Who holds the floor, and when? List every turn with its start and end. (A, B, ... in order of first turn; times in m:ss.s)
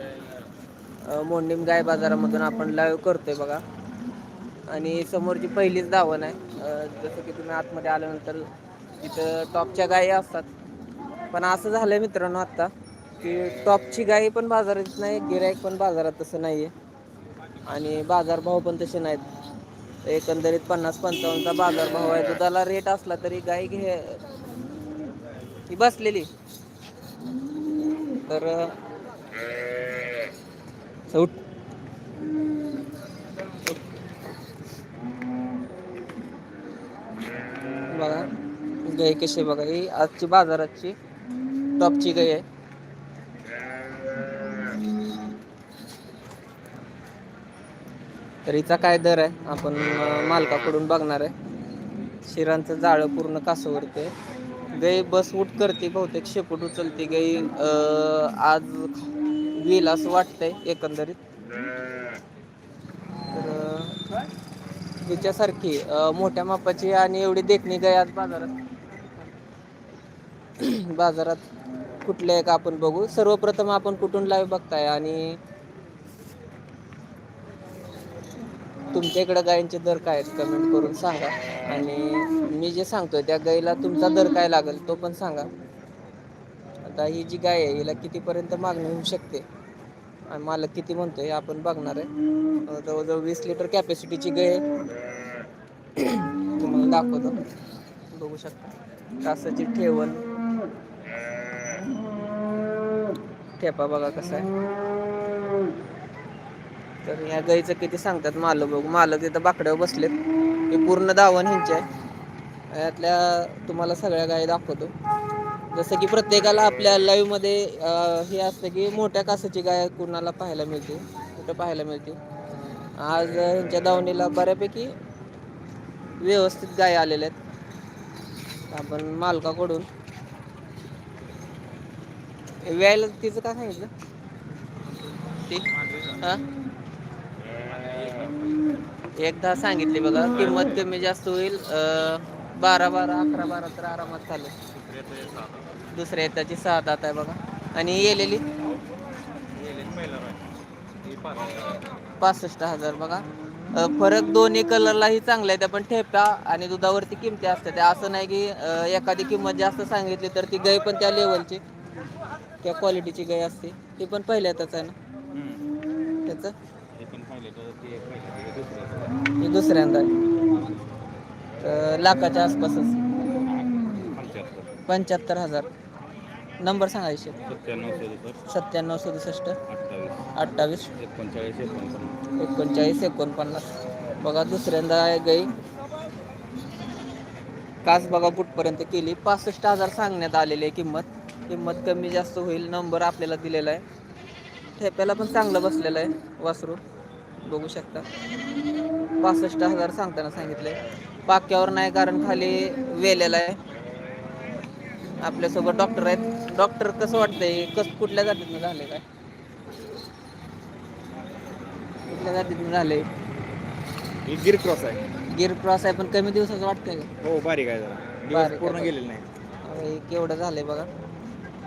0:01.0-0:03.6 A
0:04.7-0:08.5 A
0:09.0-0:10.5 A
0:11.3-0:16.7 A
0:17.7-0:19.2 A
0:20.0-0:24.2 A
0:25.7-0:26.3 A
0:28.3-0:28.8 A
0:31.1-0:31.4 A
0:37.9-0:38.3 A
0:38.8-0:41.0 A
0:41.8-0:42.4 A
0:48.5-0:51.3 A
0:52.3-0:54.1 A
0:54.8-1:01.2 A
1:03.3-1:04.0 A
1:05.0-1:08.5 A
1:10.6-1:11.4 A
1:12.0-1:15.4 A
1:18.9-1:25.5 A
1:26.8-1:29.4 A
1:30.3-1:32.1 A
1:32.7-1:34.7 A
1:36.0-1:37.4 A
1:38.1-1:40.2 A
1:43.6-1:44.5 A
1:47.0-1:50.2 A
1:50.7-1:51.8 A
1:52.7-1:54.9 A
1:55.7-2:02.2 A
2:03.0-2:04.9 A
2:06.2-2:07.4 A
2:08.7-2:09.9 A
2:12.6-2:13.9 A
2:15.5-2:16.4 A
2:19.2-2:24.5 A
2:24.7-2:25.7 B
2:25.9-2:28.4 A
2:29.6-2:30.4 B
2:31.0-2:31.8 B
2:32.2-2:41.6 A
2:42.6-2:45.0 A
2:45.3-2:45.6 B
2:46.3-2:46.5 A
2:47.0-2:49.2 B
2:49.4-2:50.1 A
2:51.6-2:53.0 A
2:54.0-2:54.7 B
2:54.9-2:55.7 A
2:56.6-2:57.4 A
2:57.5-2:58.4 B
2:58.5-2:59.6 A
2:59.7-3:00.2 B
3:00.4-3:00.9 A
3:01.0-3:02.2 B
3:02.4-3:03.7 A
3:04.2-3:05.5 A
3:07.8-3:13.8 A
3:14.8-3:16.8 A
3:17.4-3:18.1 A
3:19.2-3:23.6 A
3:25.2-3:29.0 A
3:32.1-3:33.1 A
3:34.3-3:35.0 B
3:35.3-3:37.1 A
3:37.2-3:39.3 B
3:38.3-3:38.9 A
3:39.6-3:40.9 A